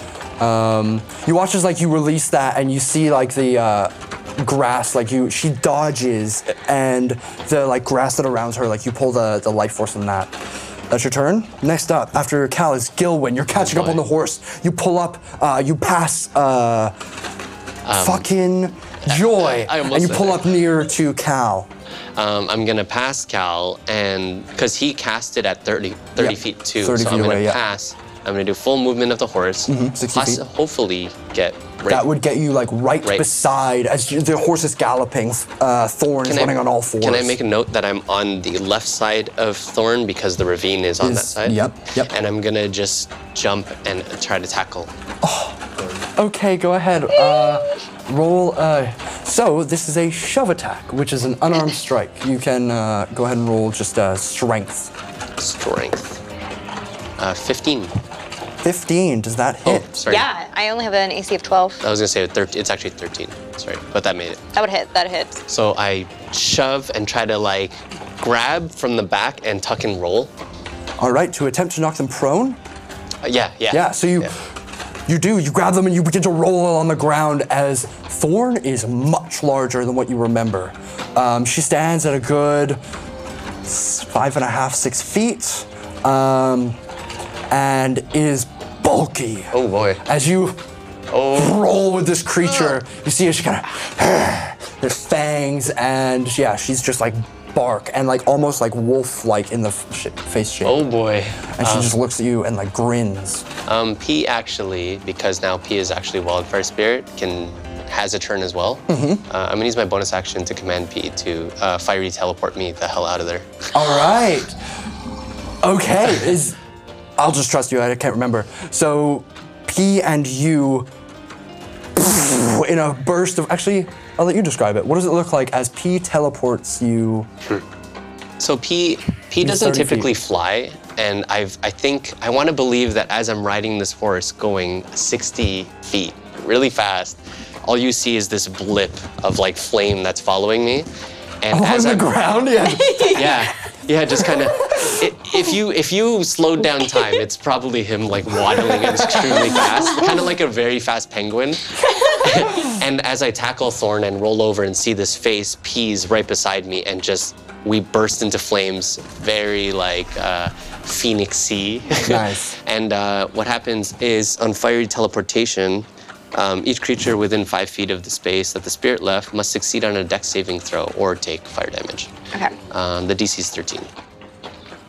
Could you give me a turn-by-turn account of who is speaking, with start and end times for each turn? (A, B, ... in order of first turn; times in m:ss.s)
0:00.4-0:10.4 A
0:10.9-0:16.9 A
0:13.5-0:14.0 B
0:17.8-0:18.3 B
0:17.9-0:21.7 A
0:19.0-0:20.5 B
0:22.2-0:32.1 B
0:26.2-0:27.6 A
0:29.7-0:30.4 A
0:31.9-0:37.4 A
0:36.3-0:44.9 B
0:41.0-0:42.1 A
0:45.2-0:45.6 A
0:46.2-0:54.9 A
0:55.4-0:56.2 B
0:57.2-0:58.0 B
0:58.6-1:00.0 A
0:59.6-1:00.3 B
1:00.1-1:01.8 C
1:01.8-1:04.4 B
1:04.6-1:05.4 C
1:05.5-1:10.3 B
1:11.0-1:12.6 A
1:13.2-1:14.3 B
1:13.7-1:14.4 A
1:15.1-1:22.8 A
1:23.6-1:26.8 A
1:27.5-1:30.6 A
1:29.5-1:30.0 B
1:31.1-1:31.6 B
1:31.3-1:40.8 A
1:40.6-1:42.0 B
1:41.5-1:43.5 A
1:43.7-1:53.7 B
1:48.9-1:49.2 A
1:53.7-1:54.6 A
1:55.6-1:56.6 A
1:57.2-2:00.9 A
2:02.0-2:07.3 A
2:08.4-2:20.9 B
2:09.4-2:10.1 A
2:21.4-2:22.1 B
2:21.5-2:23.4 A
2:22.7-2:23.3 C
2:23.1-2:52.1 B
2:24.7-2:25.1 A
2:28.7-2:29.9 A
2:42.0-2:42.6 A
2:52.7-2:53.9 B